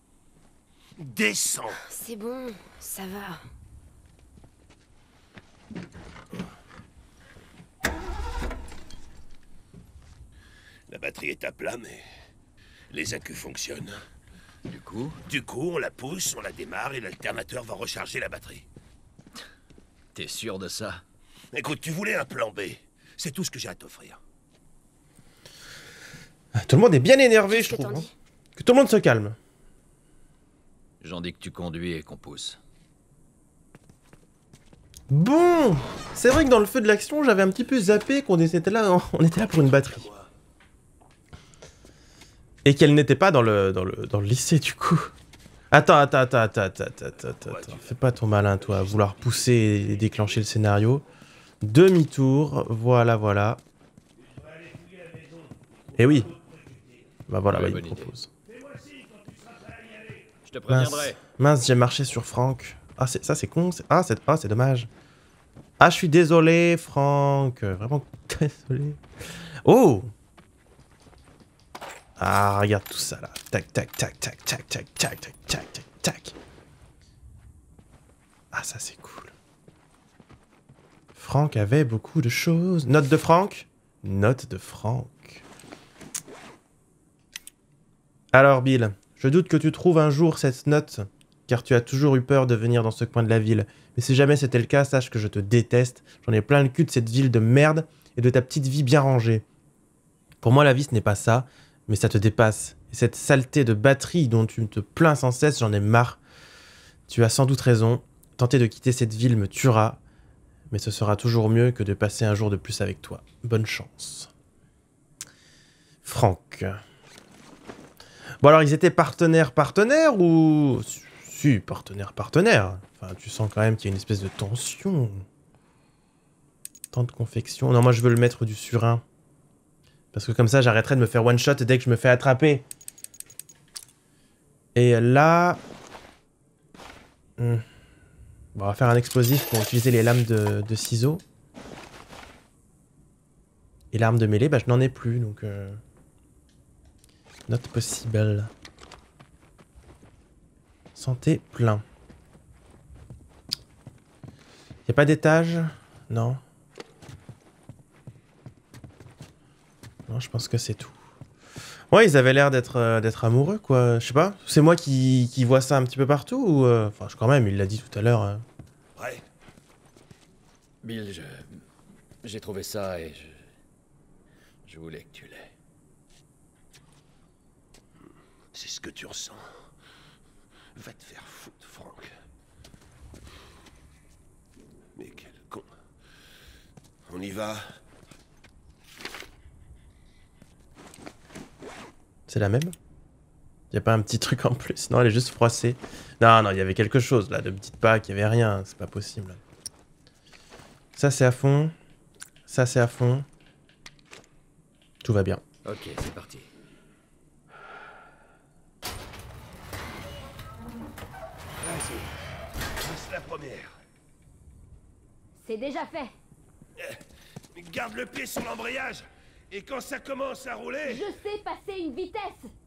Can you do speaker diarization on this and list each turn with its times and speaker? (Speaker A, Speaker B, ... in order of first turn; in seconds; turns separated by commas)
Speaker A: 1.0-1.8, Speaker B: 1.8-3.5, Speaker A: 10.9-12.1, Speaker A: 12.9-14.0, Speaker C: 14.7-15.2, Speaker A: 15.3-18.6, Speaker C: 20.1-21.0, Speaker A: 21.5-24.2, Speaker D: 26.5-29.4, Speaker B: 27.5-28.1, Speaker C: 31.0-32.6, Speaker D: 35.1-40.0, Speaker A: 39.4-40.3, Speaker D: 42.6-45.1, Speaker D: 45.7-51.0, Speaker A: 47.4-48.0, Speaker A: 48.6-49.2, Speaker D: 51.6-53.6, Speaker A: 54.2-57.1, Speaker D: 56.0-56.3, Speaker D: 57.3-58.3, Speaker C: 57.5-58.1, Speaker A: 58.4-60.3, Speaker C: 60.5-61.2, Speaker D: 60.7-64.9, Speaker D: 65.8-69.0, Speaker D: 69.6-70.1, Speaker D: 72.2-76.3, Speaker D: 78.5-79.3, Speaker D: 81.2-85.4, Speaker D: 88.3-99.4, Speaker D: 100.4-106.2, Speaker D: 107.1-110.0, Speaker D: 110.7-114.3, Speaker D: 116.0-116.8, Speaker D: 118.4-125.2, Speaker D: 126.9-129.0, Speaker D: 130.1-132.6, Speaker D: 134.7-135.6, Speaker D: 137.4-137.6, Speaker D: 138.5-141.2, Speaker D: 143.9-145.8, Speaker D: 147.5-148.5, Speaker D: 150.9-151.8, Speaker D: 154.9-156.4, Speaker D: 160.1-160.9, Speaker D: 161.9-168.4, Speaker A: 169.0-169.2, Speaker C: 170.8-171.6, Speaker C: 172.2-173.4, Speaker C: 174.7-175.5, Speaker A: 178.5-179.5, Speaker A: 180.7-182.1, Speaker A: 184.9-185.7, Speaker A: 187.1-187.7, Speaker D: 192.3-192.7, Speaker D: 193.7-199.4, Speaker D: 200.9-201.7, Speaker D: 202.5-203.2, Speaker D: 205.0-205.4, Speaker C: 205.6-206.5, Speaker A: 211.6-212.1, Speaker A: 212.8-213.8, Speaker B: 215.4-216.1, Speaker A: 216.8-221.0, Speaker B: 220.8-222.5